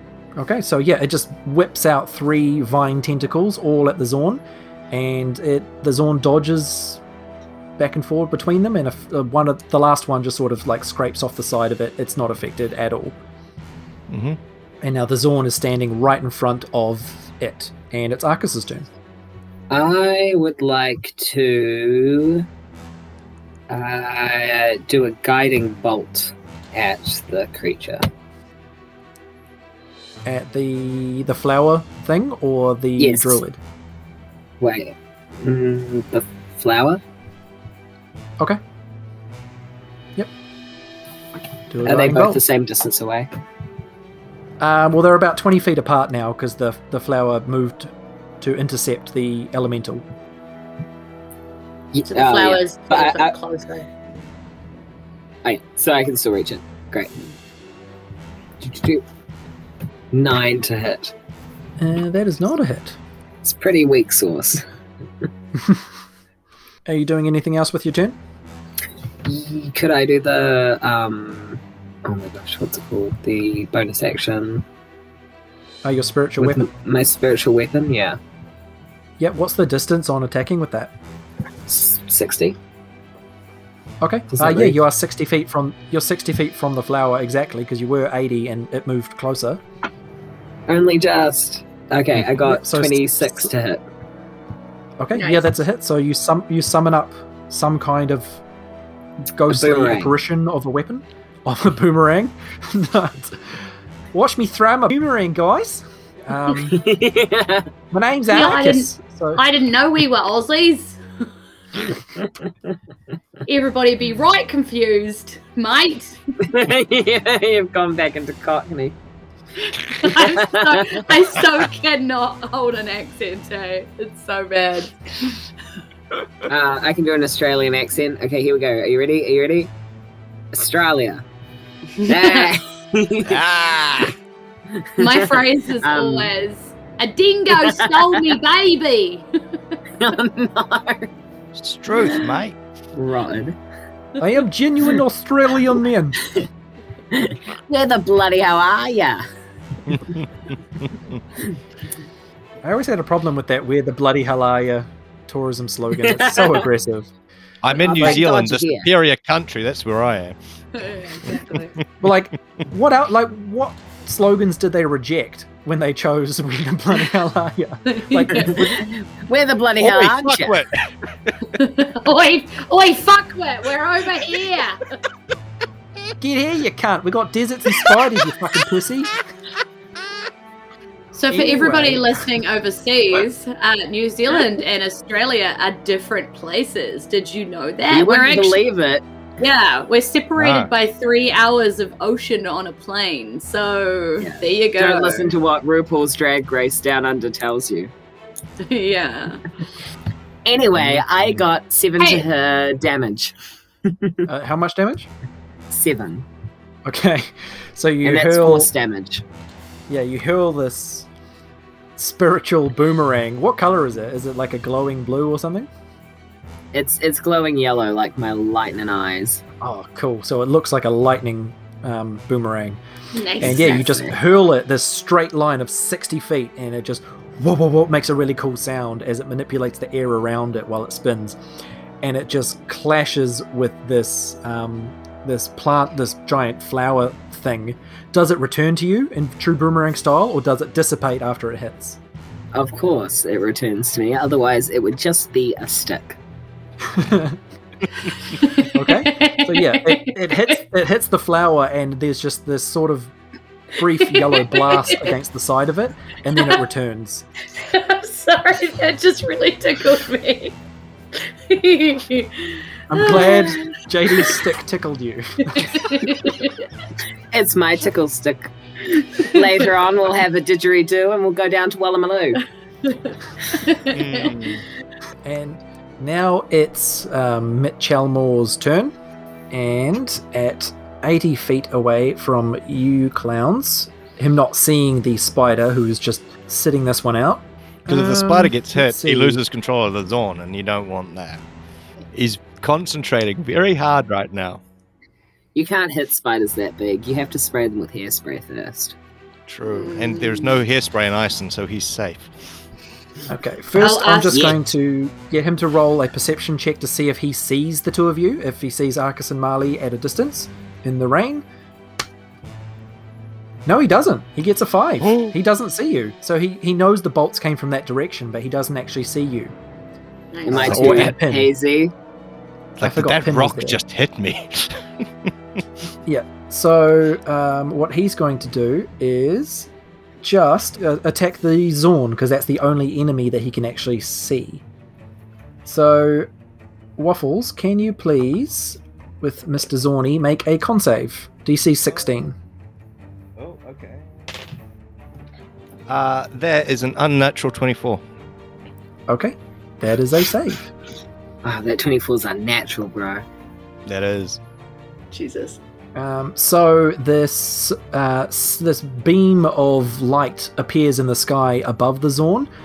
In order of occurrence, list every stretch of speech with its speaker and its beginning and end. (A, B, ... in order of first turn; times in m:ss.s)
0:00.4-0:07.0 A
0:07.8-0:13.2 A
0:14.1-0:14.4 B
0:14.8-0:18.9 A
0:19.7-0:22.5 C
0:23.7-0:28.0 C
0:30.2-0:33.6 A
0:33.0-0:33.4 C
0:34.6-0:37.0 C
0:41.7-0:42.4 A
0:41.8-0:43.3 C
0:44.6-0:50.0 A
0:51.9-0:53.3 C
0:52.1-0:53.9 D
0:55.4-0:57.2 C
0:58.6-0:59.0 C
1:00.1-1:01.1 C
1:01.8-1:03.0 A
1:03.4-1:04.6 C
1:06.9-1:08.2 A
1:09.2-1:14.6 C
1:15.8-1:16.7 A
1:16.4-1:18.2 C
1:19.2-1:20.9 A
1:21.7-1:22.6 C
1:24.0-1:29.6 A
1:24.3-1:24.8 C
1:30.7-1:33.8 C
1:32.4-1:33.5 A
1:35.0-1:38.4 A
1:35.2-1:35.5 D
1:39.3-1:46.8 A
1:39.5-1:40.2 C
1:46.7-1:47.7 C
1:47.9-1:49.4 A
1:48.3-1:51.0 D
1:53.5-1:56.2 D
1:56.4-1:59.0 C
1:59.7-2:05.0 D
2:00.0-2:01.0 C
2:06.5-2:09.7 C
2:10.5-2:11.2 C
2:12.0-2:12.5 D
2:12.0-2:13.4 C
2:13.2-2:14.1 B
2:14.8-2:16.3 C
2:15.0-2:19.3 D
2:17.5-2:18.3 C
2:20.0-2:21.1 C
2:21.6-2:22.6 B
2:23.0-2:23.6 C
2:24.2-2:26.2 A
2:27.1-2:29.2 C
2:29.9-2:31.1 B
2:32.6-2:37.1 A
2:36.0-2:36.6 C
2:37.6-2:40.4 B
2:37.7-2:38.9 C
2:38.0-2:38.2 A
2:40.7-2:41.8 D
2:42.0-2:48.9 A
2:47.9-2:48.7 D
2:48.6-2:50.6 C
2:49.8-2:51.5 B
2:51.5-2:54.8 D
2:56.2-2:59.1 A
3:01.2-3:08.6 D
3:01.3-3:02.1 A
3:07.9-3:09.0 C
3:09.4-3:15.3 D
3:10.4-3:10.7 B
3:14.2-3:17.9 C
3:18.6-3:19.4 D
3:20.4-3:23.3 C
3:20.8-3:21.0 B
3:22.0-3:22.3 D
3:23.9-3:24.2 C
3:24.3-3:25.1 A
3:25.7-3:26.2 C
3:26.8-3:28.7 A
3:28.0-3:29.2 C
3:29.9-3:31.1 A
3:32.0-3:35.7 A
3:36.7-3:39.4 C
3:39.6-3:42.8 A
3:43.1-3:44.0 D
3:43.4-3:51.4 A
3:43.4-3:44.1 C
3:52.0-4:02.0 A
4:02.5-4:06.2 C
4:06.8-4:07.4 A
4:08.3-4:10.6 D
4:08.7-4:13.1 A
4:13.8-4:17.3 A
4:14.0-4:15.1 D
4:17.6-4:20.6 D
4:21.2-4:24.4 D
4:22.9-4:25.8 A
4:25.5-4:26.6 D
4:27.3-4:32.4 C
4:32.9-4:34.4 D
4:33.9-4:34.6 B
4:35.2-4:38.9 A
4:39.5-4:49.4 A
4:47.9-4:51.4 B
4:52.1-4:54.6 B
4:55.6-4:59.0 C
4:59.5-5:02.3 B
4:59.7-5:00.6 D
5:03.3-5:11.4 A
5:03.8-5:04.5 D
5:13.7-5:19.6 A
5:15.0-5:15.3 B
5:20.3-5:21.1 D
5:20.5-5:21.9 C
5:20.5-5:21.5 A
5:22.8-5:23.8 A
5:22.8-5:25.3 B
5:26.1-5:29.7 A
5:30.2-5:34.6 A
5:35.7-5:36.3 A
5:37.0-5:42.4 A
5:43.4-5:44.0 B
5:45.9-5:48.0 B
5:49.1-5:50.7 A
5:51.4-5:53.2 C
5:53.9-5:54.4 B
5:55.1-5:55.6 D
5:56.0-6:02.5 A